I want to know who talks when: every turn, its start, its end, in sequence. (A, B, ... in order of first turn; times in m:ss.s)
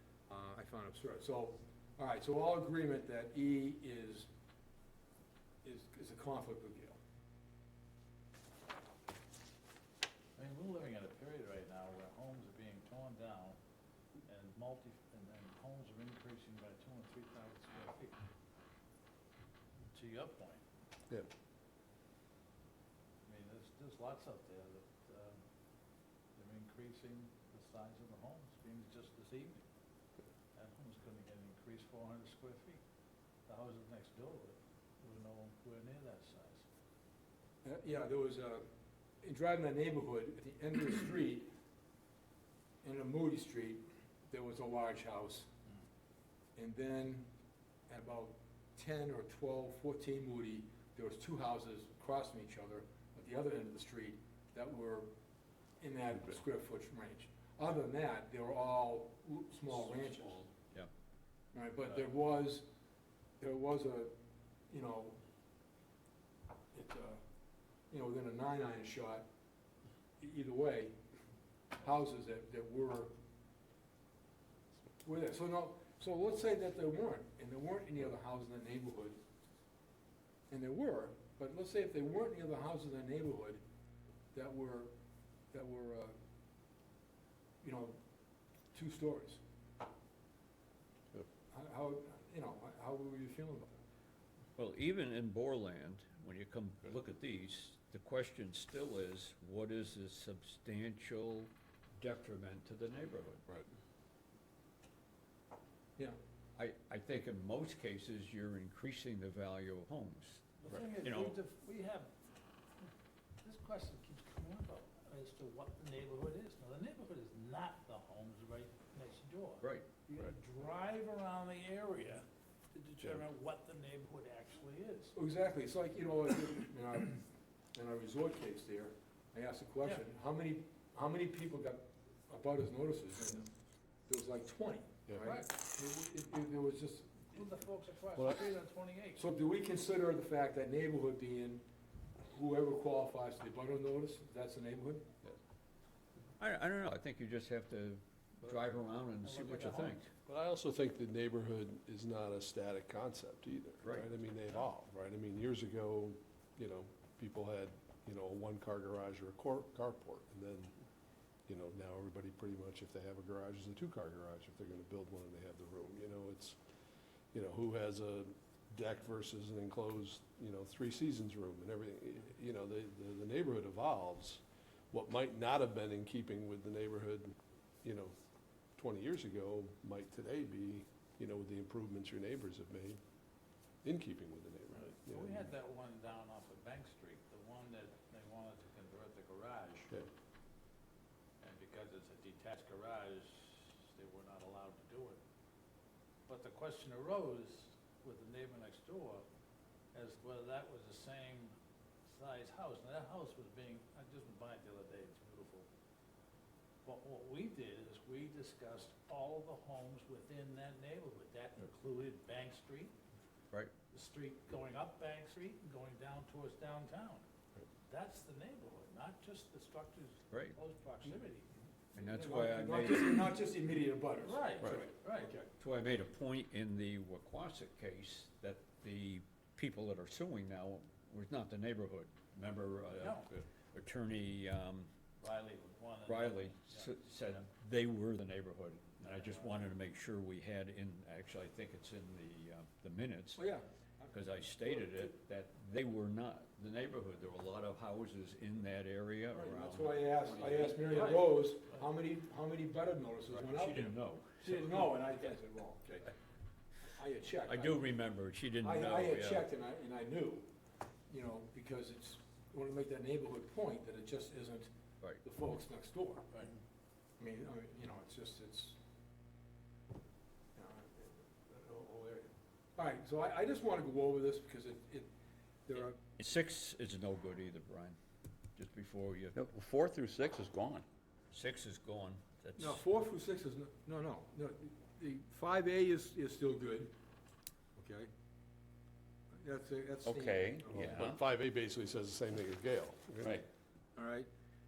0:00.3-0:04.3 A
0:05.6-0:07.0 A
0:10.4-0:13.6 B
0:14.3-0:18.2 B
0:19.9-0:20.6 B
0:23.2-0:25.4 B
0:26.4-0:29.6 B
0:30.6-0:32.8 B
0:33.5-0:36.6 B
0:37.6-0:38.7 A
0:39.2-0:41.5 A
0:42.8-0:45.5 A
0:46.6-0:47.3 A
0:47.9-0:55.1 A
0:55.8-1:00.5 A
1:01.5-1:02.7 A
1:03.4-1:04.1 A
1:04.7-1:05.2 A
1:06.7-1:07.2 A
1:07.9-1:09.3 A
1:10.2-1:11.0 A
1:11.8-1:13.1 A
1:15.0-1:19.2 A
1:20.5-1:23.6 A
1:24.3-1:24.9 A
1:25.5-1:26.2 A
1:27.6-1:28.0 A
1:28.7-1:29.4 A
1:31.5-1:33.8 A
1:34.6-1:43.4 C
1:46.6-1:51.4 C
1:50.6-1:52.1 B
1:53.4-2:05.2 B
1:59.6-1:59.9 C
2:05.2-2:07.2 A
2:07.7-2:13.5 A
2:14.1-2:17.5 A
2:15.2-2:15.5 B
2:17.3-2:19.2 B
2:18.2-2:18.4 D
2:19.2-2:21.6 A
2:22.3-2:25.1 A
2:26.4-2:30.1 C
2:29.2-2:30.0 B
2:30.3-2:40.7 D
2:41.5-2:46.6 D
2:47.3-2:58.1 D
2:58.8-3:03.0 D
3:03.8-3:05.5 D
3:04.8-3:09.9 B
3:11.4-3:15.2 B
3:16.3-3:19.2 B
3:19.9-3:25.7 B
3:26.8-3:32.9 B
3:33.9-3:37.2 B
3:37.9-3:41.5 B
3:41.9-3:43.3 C
3:42.0-3:45.5 A
3:44.2-3:45.3 B
3:45.6-3:54.9 C
3:53.0-3:53.3 B
3:55.2-3:57.5 B
3:56.1-4:03.4 C
3:59.0-3:59.7 B
4:03.4-4:05.1 A
4:04.1-4:11.0 C
4:09.3-4:16.2 A
4:10.8-4:11.3 B
4:13.3-4:14.7 C
4:16.8-4:17.9 A
4:17.5-4:19.5 C
4:18.6-4:20.5 A
4:21.1-4:24.7 A
4:25.2-4:26.5 A
4:27.2-4:28.8 A
4:30.6-4:35.1 A
4:35.7-4:36.0 A
4:35.7-4:38.0 C
4:38.6-4:39.4 C
4:39.3-4:40.8 E
4:41.3-4:42.8 C
4:42.6-4:46.9 A
4:47.8-4:48.1 A
4:49.4-4:51.0 A
4:50.0-4:51.2 E
4:50.7-4:53.4 D
4:50.7-4:51.2 C
4:54.0-4:54.3 A